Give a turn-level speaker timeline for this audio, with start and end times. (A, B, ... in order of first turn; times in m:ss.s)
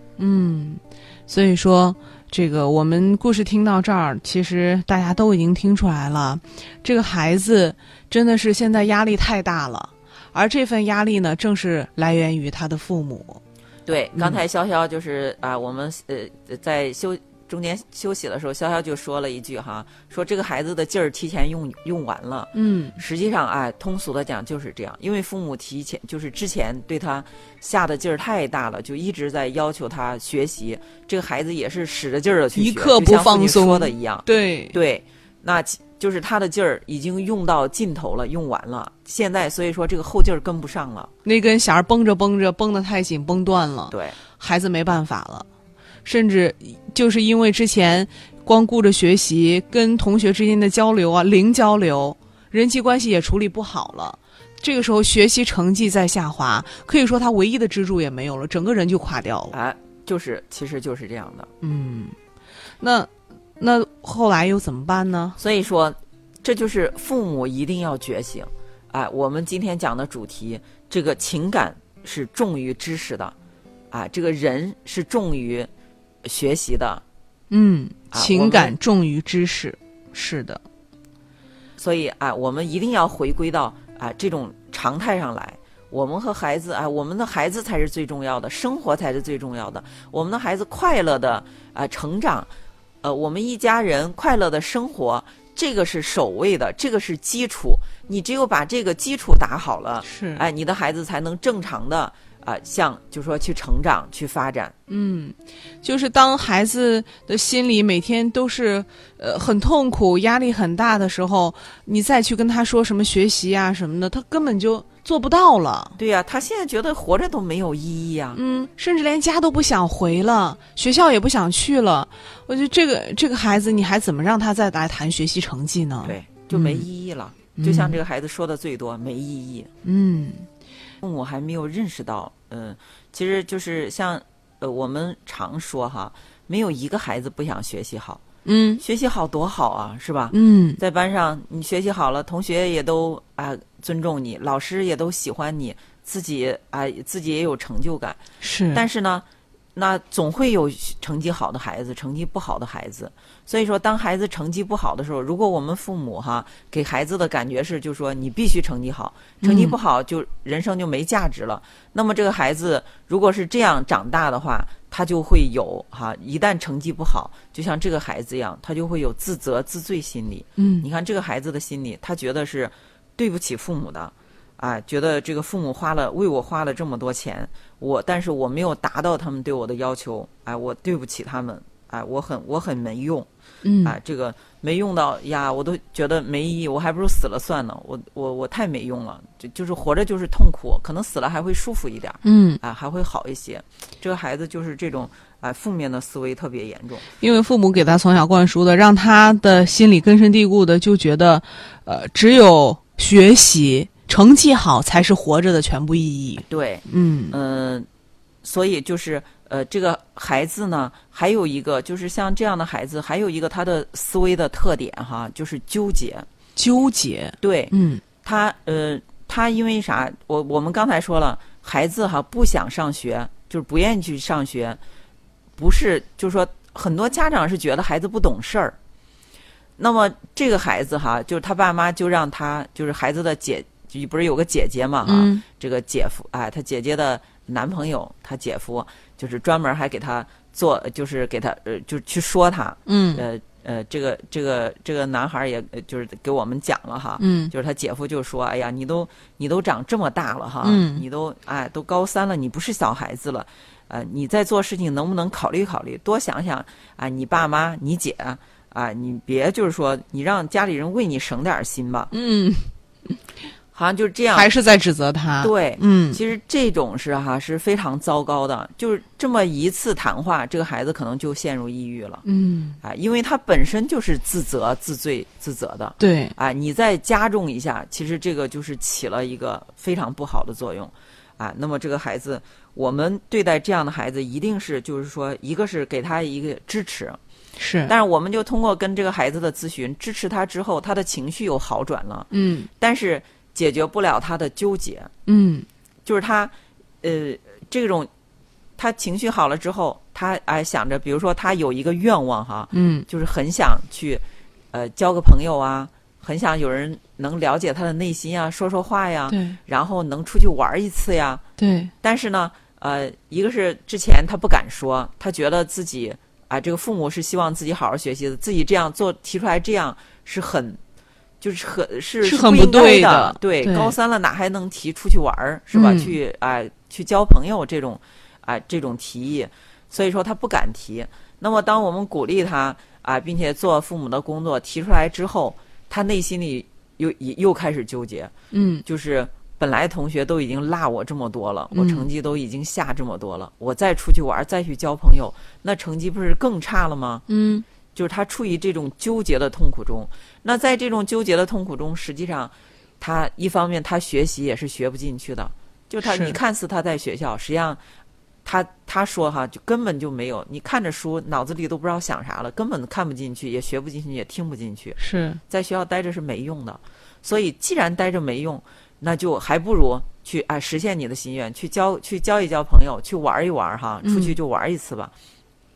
0:00.2-0:13.4 A
0:13.8-0:41.1 B
0:14.1-0:14.4 A
0:22.5-0:23.0 A
0:32.5-0:34.8 A
0:41.2-0:45.4 A
0:43.9-0:44.2 B
0:46.0-0:59.6 A
0:59.5-1:01.5 B
1:01.6-1:02.2 A
1:02.8-1:05.4 A
1:05.4-1:13.3 B
1:13.9-1:15.7 B
1:16.2-1:17.0 B
1:17.5-1:20.6 A
1:18.1-1:18.7 B
1:21.8-1:32.5 B
1:33.0-1:44.7 B
1:40.0-1:40.4 A
1:44.9-1:56.0 A
1:56.0-1:58.4 B
1:58.3-2:06.8 A
2:06.0-2:09.7 B
2:07.6-2:08.0 A
2:09.8-2:10.4 A
2:11.0-2:18.2 B
2:18.4-2:18.8 A
2:18.8-2:28.2 B
2:20.3-2:20.8 A
2:28.4-2:28.8 A
2:28.7-3:03.3 B
2:39.4-2:39.8 A
2:50.6-2:50.9 A
3:03.6-3:04.0 A
3:03.8-3:17.1 B
3:12.2-3:12.6 A
3:17.2-3:27.4 A
3:26.5-3:27.9 B
3:28.4-3:36.3 B
3:36.6-3:38.0 A
3:37.4-3:44.8 B
3:45.6-3:48.8 B
3:49.8-4:22.1 B
3:55.0-3:55.4 A
4:02.8-4:03.2 A
4:07.2-4:07.5 A
4:10.6-4:11.0 A
4:22.1-4:22.7 A
4:23.7-4:24.5 B
4:24.3-4:26.2 A
4:25.4-4:32.2 B
4:32.2-4:32.8 A
4:32.8-4:47.2 B
4:36.0-4:36.3 A
4:47.6-4:47.9 A
4:47.9-4:55.1 B
4:52.3-4:52.7 A
4:55.3-4:55.7 A
4:56.0-4:58.1 B
4:58.8-5:11.4 B
5:02.7-5:03.0 A
5:09.3-5:09.6 A
5:11.6-5:11.9 A
5:12.0-5:20.8 B
5:21.4-5:38.3 B
5:22.2-5:23.9 A
5:25.7-5:26.1 A
5:38.5-5:38.8 A
5:38.8-5:47.2 B
5:41.7-5:42.1 A
5:47.3-5:47.6 A
5:47.9-5:57.8 B
5:56.0-5:56.4 A
5:58.4-6:15.1 B
6:05.0-6:05.4 A
6:14.0-6:14.4 A